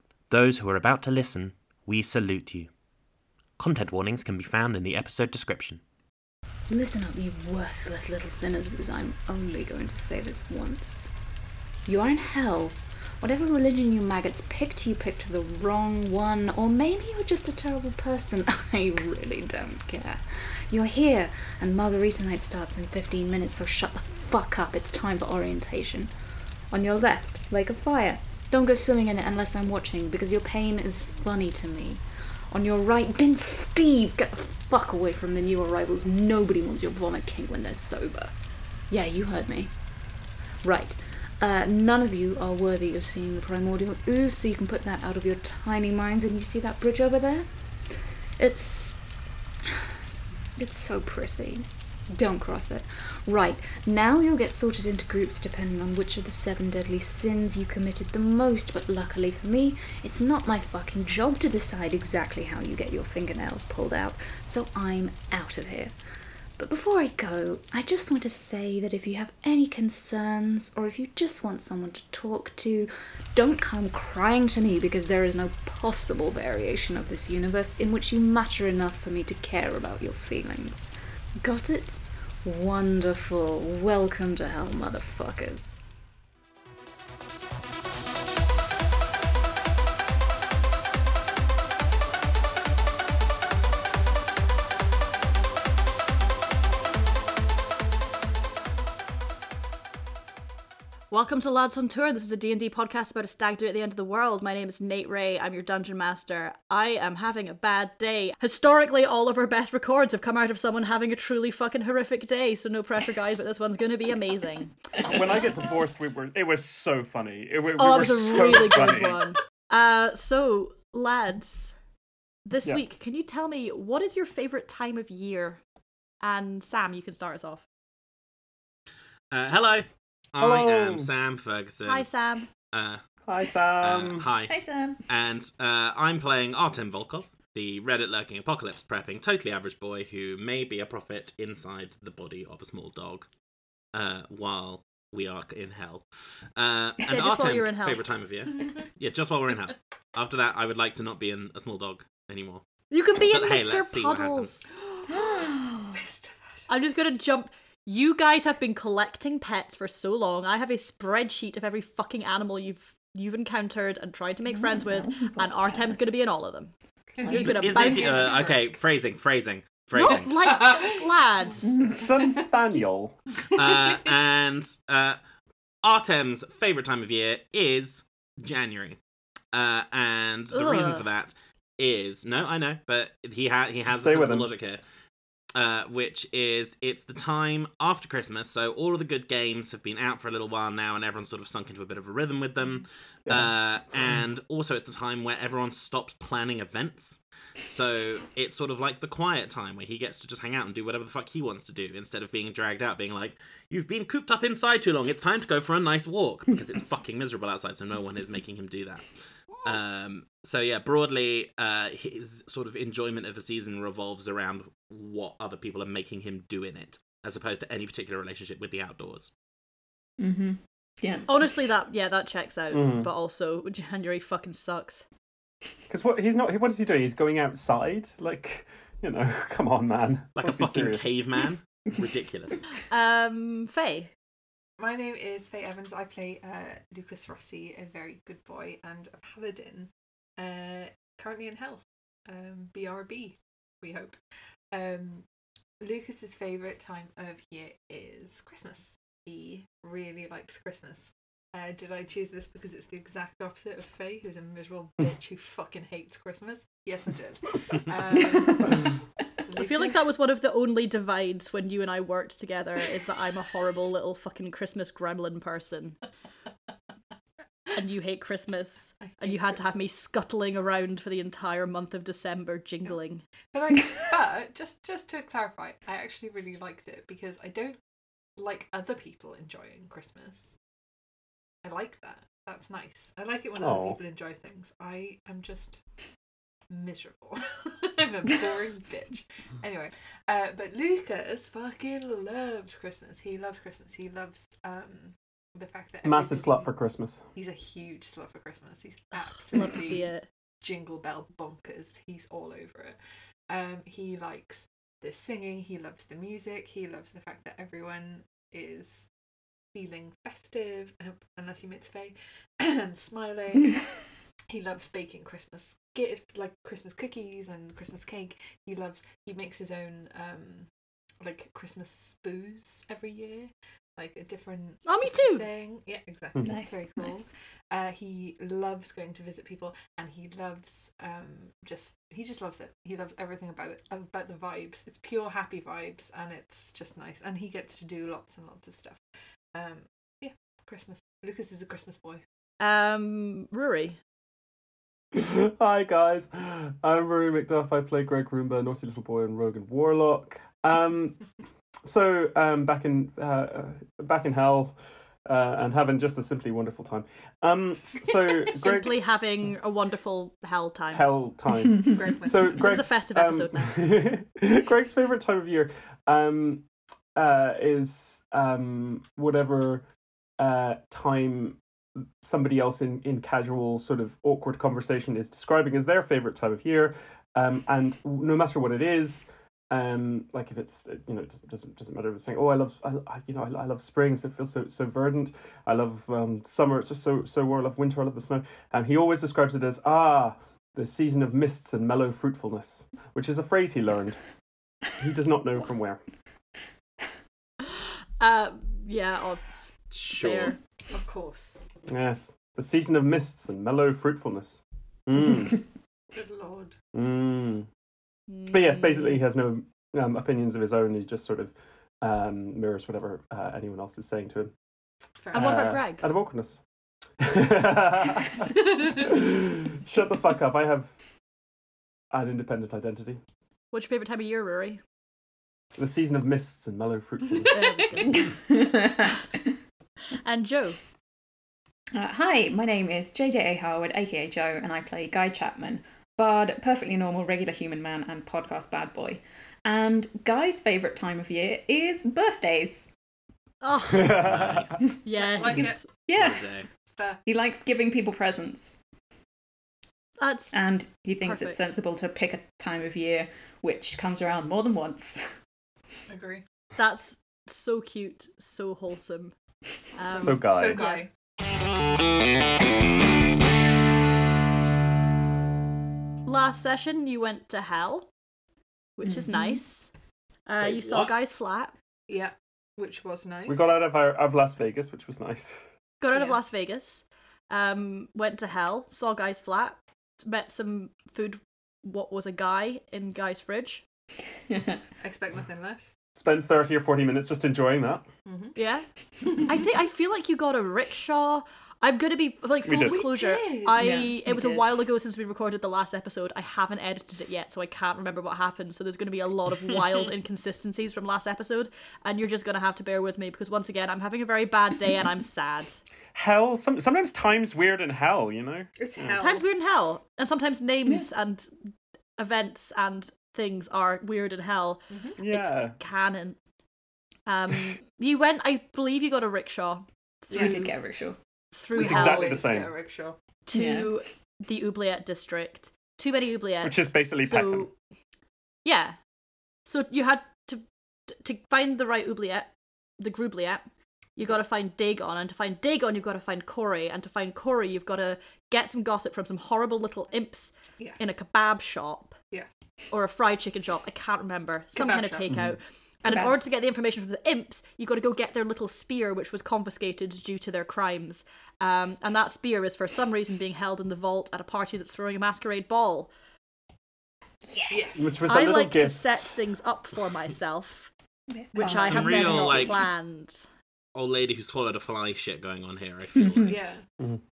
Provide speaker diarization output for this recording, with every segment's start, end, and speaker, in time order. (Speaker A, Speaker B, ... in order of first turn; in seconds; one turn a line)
Speaker A: 0.3-2.7
Speaker A: 3.6-5.8
Speaker B: 6.7-11.1
Speaker B: 11.9-26.1
Speaker B: 26.7-38.3
Speaker B: 38.9-39.7
Speaker B: 40.6-47.5
Speaker B: 48.4-49.0
Speaker B: 50.6-65.9
Speaker B: 66.6-85.8
Speaker C: 101.1-115.0
Speaker D: 115.0-119.2
Speaker C: 117.8-121.7
Speaker C: 122.5-125.6
Speaker C: 126.2-127.7
Speaker E: 129.3-132.1
Speaker D: 130.4-131.1
Speaker C: 131.9-132.5
Speaker E: 132.7-133.0
Speaker D: 133.2-134.2
Speaker E: 133.8-134.5
Speaker F: 134.5-135.0
Speaker E: 135.1-143.3
Speaker E: 143.9-146.0
Speaker E: 146.6-152.6
Speaker C: 147.1-148.0
Speaker G: 148.5-148.8
Speaker C: 152.9-154.7
Speaker E: 153.2-154.6
Speaker G: 154.8-156.7
Speaker F: 155.6-155.8
Speaker C: 156.7-166.7
Speaker F: 164.5-165.9
Speaker G: 167.1-168.7
Speaker F: 167.2-167.7
Speaker C: 167.3-168.4
Speaker E: 167.4-170.3
Speaker C: 169.9-171.8
Speaker G: 170.1-171.5
Speaker F: 171.6-172.3
Speaker D: 171.9-173.2
Speaker G: 172.1-172.4
Speaker G: 173.5-174.1
Speaker E: 173.5-175.2
Speaker E: 175.8-179.0
Speaker E: 179.5-184.8
Speaker C: 180.5-181.1
Speaker D: 183.9-184.5
Speaker E: 185.6-209.1
Speaker D: 193.3-193.5
Speaker E: 209.6-219.3
Speaker F: 220.2-221.2
Speaker C: 221.3-225.0
Speaker D: 222.7-223.1
Speaker D: 225.9-231.1
Speaker E: 230.4-232.7
Speaker C: 232.9-234.1
Speaker G: 234.8-244.2
Speaker G: 244.7-245.2
Speaker G: 245.8-260.1
Speaker C: 259.5-266.0
Speaker C: 267.7-273.2
Speaker G: 269.0-269.8
Speaker G: 273.5-277.8
Speaker G: 278.4-280.6
Speaker G: 281.6-285.8
Speaker D: 283.6-284.0
Speaker G: 286.7-296.7
Speaker D: 296.0-297.2
Speaker G: 297.4-303.0
Speaker C: 299.1-300.3
Speaker G: 303.5-309.1
Speaker G: 309.7-313.9
Speaker G: 314.5-320.7
Speaker G: 321.2-339.0
Speaker C: 324.9-325.5
Speaker F: 326.4-327.2
Speaker G: 339.5-342.2
Speaker C: 342.6-344.0
Speaker D: 345.1-351.2
Speaker D: 351.8-359.1
Speaker C: 358.5-361.1
Speaker D: 360.9-369.8
Speaker G: 361.8-363.0
Speaker C: 362.4-363.9
Speaker D: 370.4-371.6
Speaker D: 372.2-394.2
Speaker D: 395.0-396.0
Speaker C: 397.6-399.4
Speaker E: 399.9-400.6
Speaker C: 400.1-400.6
Speaker G: 400.9-401.6
Speaker D: 401.9-405.6
Speaker G: 406.1-406.8
Speaker D: 406.9-407.7
Speaker C: 408.3-409.2
Speaker D: 408.5-414.5
Speaker G: 415.2-415.9
Speaker C: 415.3-416.1
Speaker D: 415.3-416.6
Speaker D: 417.2-420.9
Speaker D: 422.1-423.2
Speaker C: 423.7-424.8
Speaker D: 425.7-427.9
Speaker C: 427.5-428.3
Speaker F: 428.1-429.2
Speaker C: 430.2-430.8
Speaker F: 432.0-442.9
Speaker C: 443.6-444.3
Speaker D: 443.9-444.8
Speaker E: 444.2-444.9
Speaker C: 445.0-445.9
Speaker G: 445.1-445.8
Speaker F: 446.1-446.5
Speaker E: 446.1-446.7
Speaker G: 446.8-447.2
Speaker F: 447.2-448.8
Speaker C: 450.2-450.6
Speaker F: 450.5-455.2
Speaker C: 451.2-451.7
Speaker G: 456.1-456.4
Speaker C: 456.8-459.3
Speaker C: 459.9-461.1
Speaker G: 460.0-461.1
Speaker D: 460.2-460.8
Speaker C: 466.3-468.1
Speaker C: 469.0-469.9
Speaker F: 469.0-469.6
Speaker C: 470.5-471.7
Speaker E: 470.6-471.1
Speaker G: 472.1-473.7
Speaker D: 473.5-475.6
Speaker C: 476.0-483.8
Speaker G: 476.1-476.5
Speaker F: 484.5-484.8
Speaker G: 485.0-485.9
Speaker D: 486.1-488.1
Speaker G: 488.3-488.6
Speaker C: 488.6-488.9
Speaker G: 489.2-489.6
Speaker C: 489.5-505.8
Speaker D: 492.7-493.1
Speaker G: 492.8-494.2
Speaker F: 493.8-494.7
Speaker D: 506.1-509.2
Speaker G: 508.8-509.5
Speaker C: 509.2-511.5
Speaker C: 512.2-516.4
Speaker G: 514.9-515.2
Speaker D: 515.2-515.8
Speaker C: 517.3-520.7
Speaker F: 520.3-521.2
Speaker G: 520.3-520.7
Speaker C: 521.5-522.5
Speaker G: 521.7-523.2
Speaker D: 521.8-522.7
Speaker C: 523.5-527.7
Speaker F: 523.5-524.0
Speaker D: 526.6-527.7
Speaker C: 528.6-529.0
Speaker C: 529.7-533.6
Speaker C: 534.2-542.2
Speaker G: 540.8-541.1
Speaker C: 542.9-556.1
Speaker G: 544.7-545.3
Speaker D: 545.3-545.6
Speaker F: 546.1-546.5
Speaker F: 557.4-558.2
Speaker G: 557.7-558.3
Speaker D: 558.0-559.3
Speaker C: 558.3-560.9
Speaker F: 561.4-562.7
Speaker C: 561.5-563.4
Speaker E: 561.6-562.8
Speaker E: 564.0-566.6
Speaker G: 566.4-566.8